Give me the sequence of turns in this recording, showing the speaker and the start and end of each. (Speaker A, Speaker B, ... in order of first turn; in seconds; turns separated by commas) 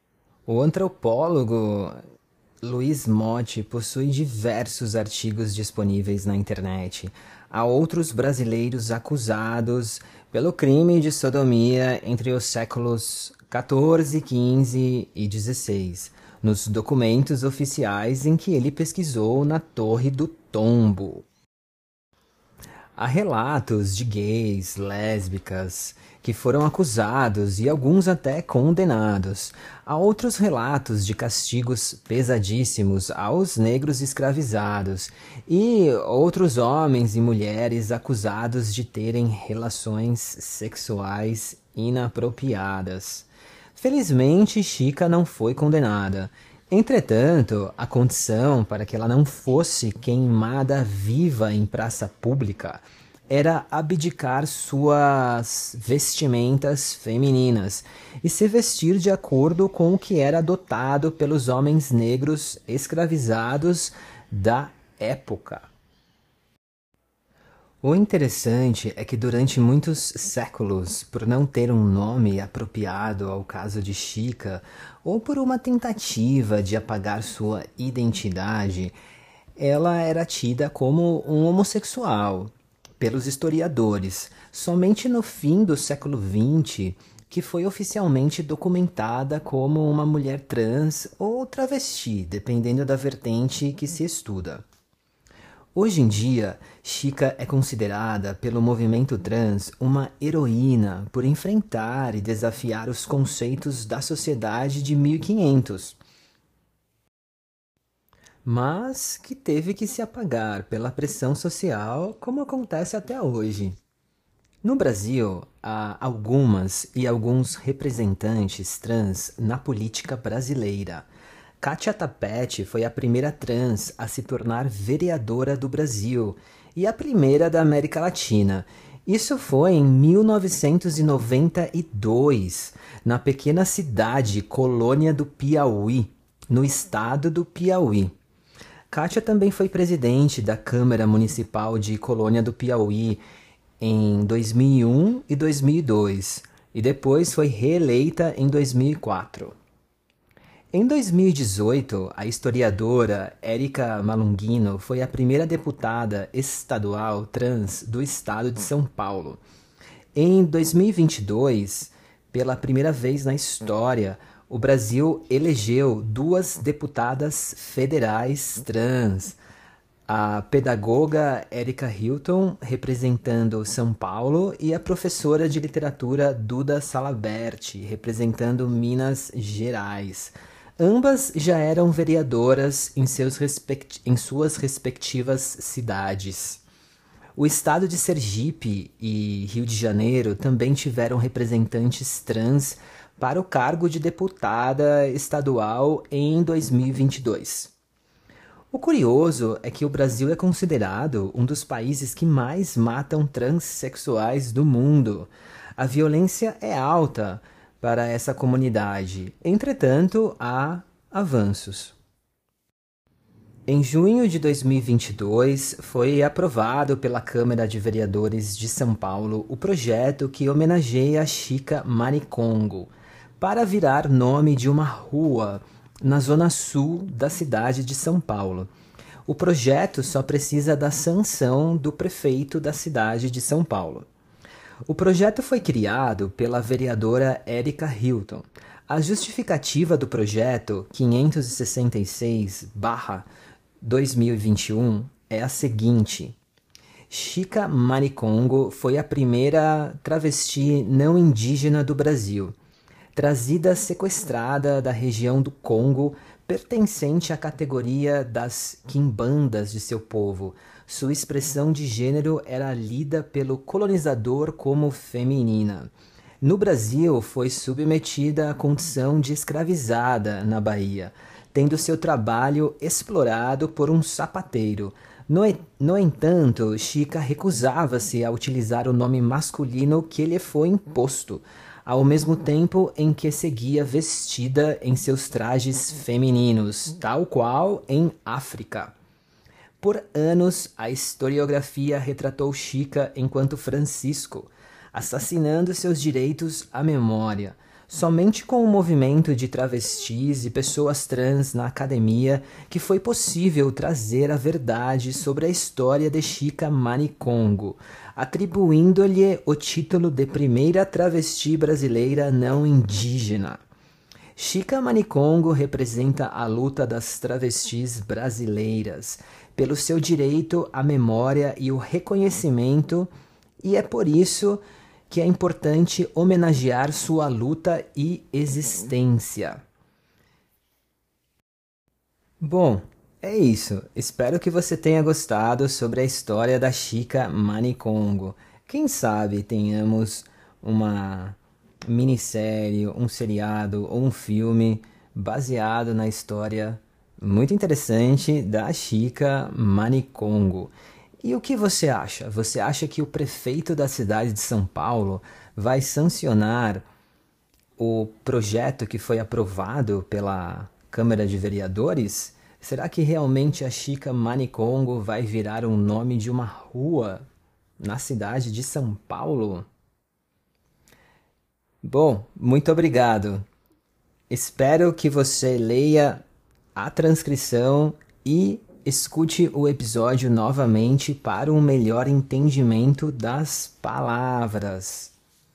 Speaker A: 0.5-2.0, Speaker A: 2.6-21.2, Speaker A: 23.0-65.7, Speaker A: 67.8-78.9, Speaker A: 79.5-94.6, Speaker A: 95.7-106.0, Speaker A: 108.4-113.8, Speaker A: 114.6-121.1, Speaker A: 121.6-138.1, Speaker A: 138.9-143.2, Speaker A: 143.8-149.6, Speaker A: 150.7-159.4, Speaker A: 160.1-169.4, Speaker A: 170.1-186.6, Speaker A: 187.3-197.7, Speaker A: 198.7-212.0, Speaker A: 213.7-228.7, Speaker A: 229.3-234.1, Speaker A: 234.8-243.3, Speaker A: 243.8-246.4, Speaker A: 247.1-252.5, Speaker A: 253.1-265.9, Speaker A: 266.4-288.9, Speaker A: 289.8-313.6, Speaker A: 314.4-323.1, Speaker A: 323.6-329.6, Speaker A: 332.4-356.9, Speaker A: 357.8-367.2, Speaker A: 367.8-369.7, Speaker A: 371.8-373.4, Speaker A: 374.3-385.1